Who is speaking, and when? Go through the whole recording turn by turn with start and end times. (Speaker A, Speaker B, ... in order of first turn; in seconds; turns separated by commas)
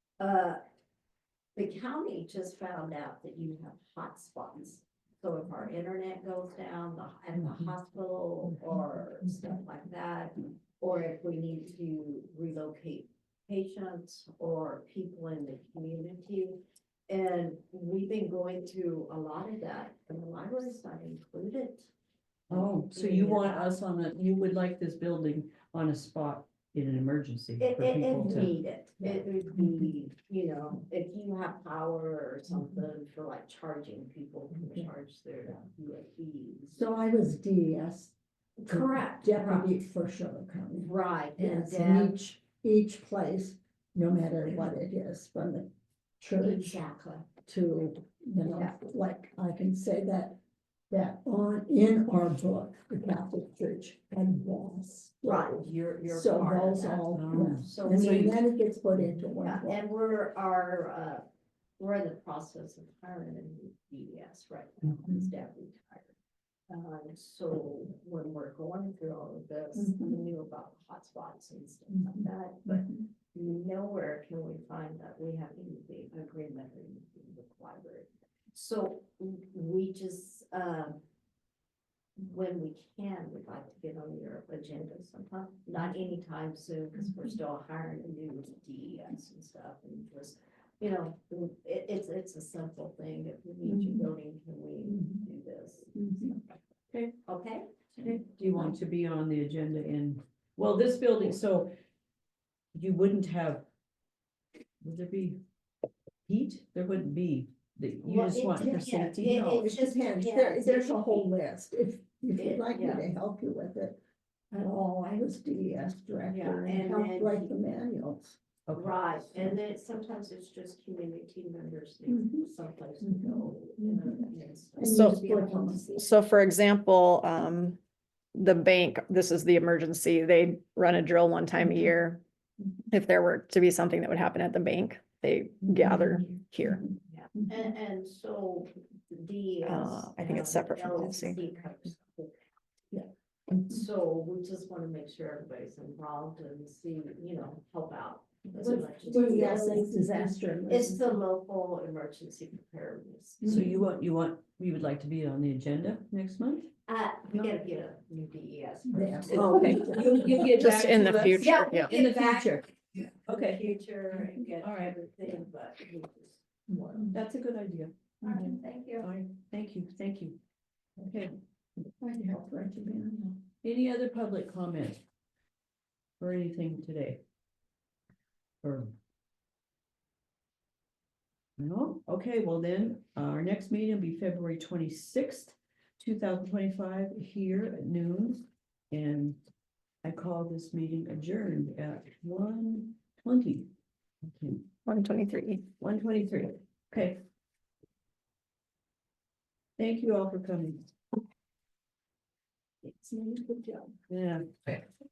Speaker A: 0.2-0.6, Speaker A: 1.6-21.9, Speaker A: 22.5-23.7, Speaker B: 22.5-28.5, Speaker A: 27.6-36.8, Speaker C: 29.0-29.9, Speaker C: 36.7-38.1, Speaker A: 38.6-39.7, Speaker C: 38.7-46.8, Speaker A: 40.8-42.2, Speaker A: 46.4-47.3, Speaker C: 47.4-50.4, Speaker A: 48.4-48.8, Speaker C: 50.9-59.8, Speaker A: 55.2-58.4, Speaker B: 57.1-58.4, Speaker A: 59.4-61.2, Speaker A: 61.8-66.1, Speaker A: 66.7-81.0, Speaker C: 69.8-70.2, Speaker C: 71.9-72.9, Speaker A: 82.2-96.6, Speaker C: 93.6-94.1, Speaker C: 94.9-95.2, Speaker C: 95.9-96.3, Speaker A: 97.2-98.7, Speaker B: 98.0-101.7, Speaker B: 102.7-103.6, Speaker B: 104.8-105.4, Speaker B: 106.2-109.4, Speaker A: 108.0-111.3, Speaker C: 108.6-114.0, Speaker A: 112.3-113.1, Speaker C: 114.5-118.4, Speaker A: 116.2-117.5, Speaker B: 118.7-118.9, Speaker A: 118.7-126.0, Speaker C: 122.1-122.5, Speaker C: 123.0-125.9, Speaker D: 124.9-125.2, Speaker D: 125.9-127.8, Speaker D: 128.3-132.2, Speaker C: 131.6-131.9, Speaker D: 132.9-136.8, Speaker C: 135.8-136.1, Speaker A: 137.1-142.3, Speaker D: 139.6-141.4, Speaker C: 142.9-143.8, Speaker A: 143.7-153.6, Speaker C: 148.6-151.1, Speaker C: 153.4-153.8, Speaker B: 153.4-156.7, Speaker A: 156.9-167.1, Speaker C: 158.9-160.2, Speaker B: 159.3-162.7, Speaker D: 160.5-161.9, Speaker B: 163.2-163.6, Speaker B: 164.6-164.9, Speaker C: 166.7-167.1, Speaker B: 167.1-170.4, Speaker A: 168.2-169.1, Speaker B: 171.0-171.3, Speaker C: 172.0-173.4, Speaker B: 173.6-175.0, Speaker B: 176.2-177.2, Speaker B: 178.6-178.9, Speaker B: 181.6-189.4, Speaker B: 190.0-193.7, Speaker B: 194.2-194.7, Speaker D: 194.9-195.6, Speaker B: 195.8-197.2, Speaker B: 199.8-200.9, Speaker B: 204.1-204.8